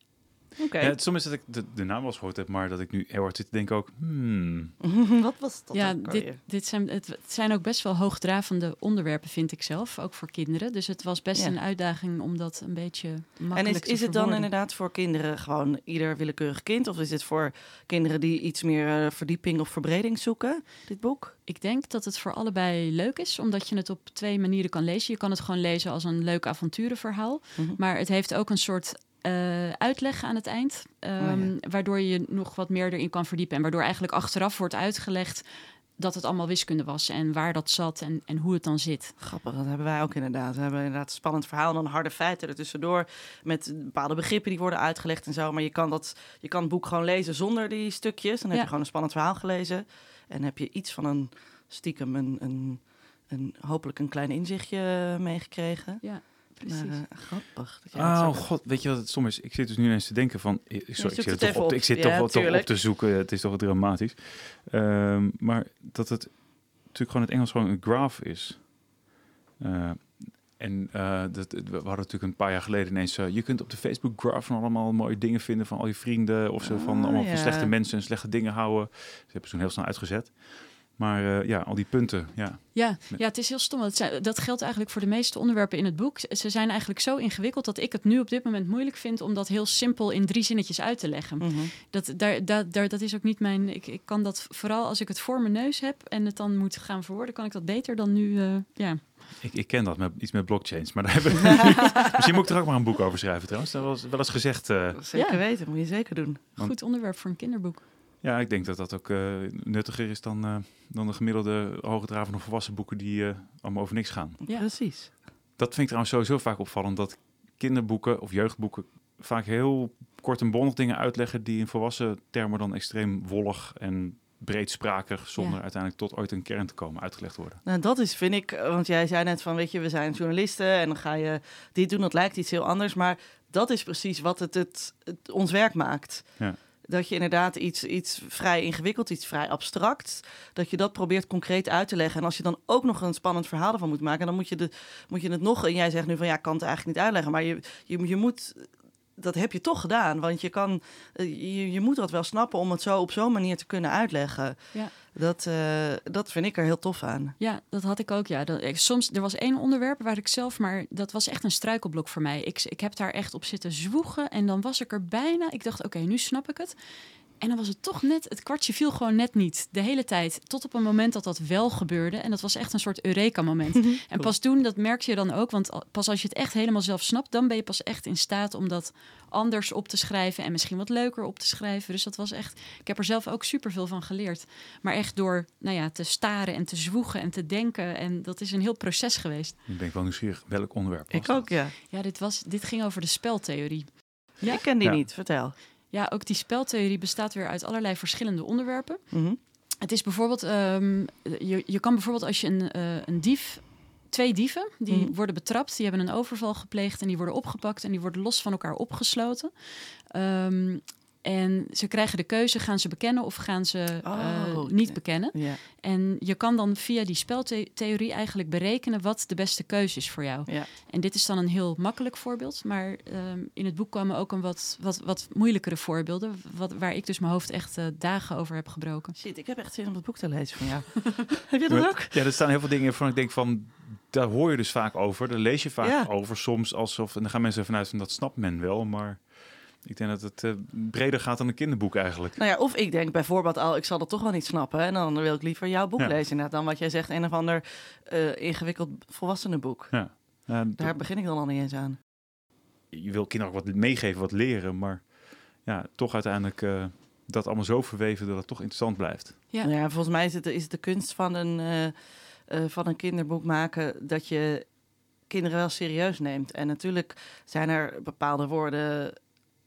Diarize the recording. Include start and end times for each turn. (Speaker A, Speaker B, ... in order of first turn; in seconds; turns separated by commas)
Speaker A: 0.6-0.9, Speaker B: 0.8-4.8, Speaker A: 4.8-6.4, Speaker C: 5.7-14.5, Speaker A: 13.5-21.4, Speaker C: 21.4-39.2, Speaker A: 31.2-31.5, Speaker A: 39.2-58.5, Speaker C: 56.0-57.0, Speaker B: 58.0-68.8, Speaker A: 61.0-62.7, Speaker B: 69.6-83.2, Speaker A: 76.6-77.7, Speaker C: 82.7-99.1, Speaker A: 91.4-91.7, Speaker B: 99.4-105.0, Speaker A: 105.0-106.5, Speaker C: 105.1-105.4, Speaker C: 106.6-107.8, Speaker B: 108.2-114.4, Speaker A: 114.5-115.2, Speaker B: 115.6-127.6, Speaker A: 127.6-157.3, Speaker C: 157.4-189.6, Speaker B: 189.7-191.6, Speaker A: 191.1-191.8, Speaker C: 191.8-194.6, Speaker A: 194.4-195.5, Speaker C: 195.9-229.2, Speaker A: 199.1-199.4, Speaker A: 204.9-205.1, Speaker A: 214.0-215.6, Speaker A: 229.2-232.2, Speaker B: 231.7-242.4, Speaker A: 235.8-236.1, Speaker A: 242.4-252.0, Speaker B: 249.9-250.9, Speaker B: 252.9-259.4, Speaker A: 259.6-269.2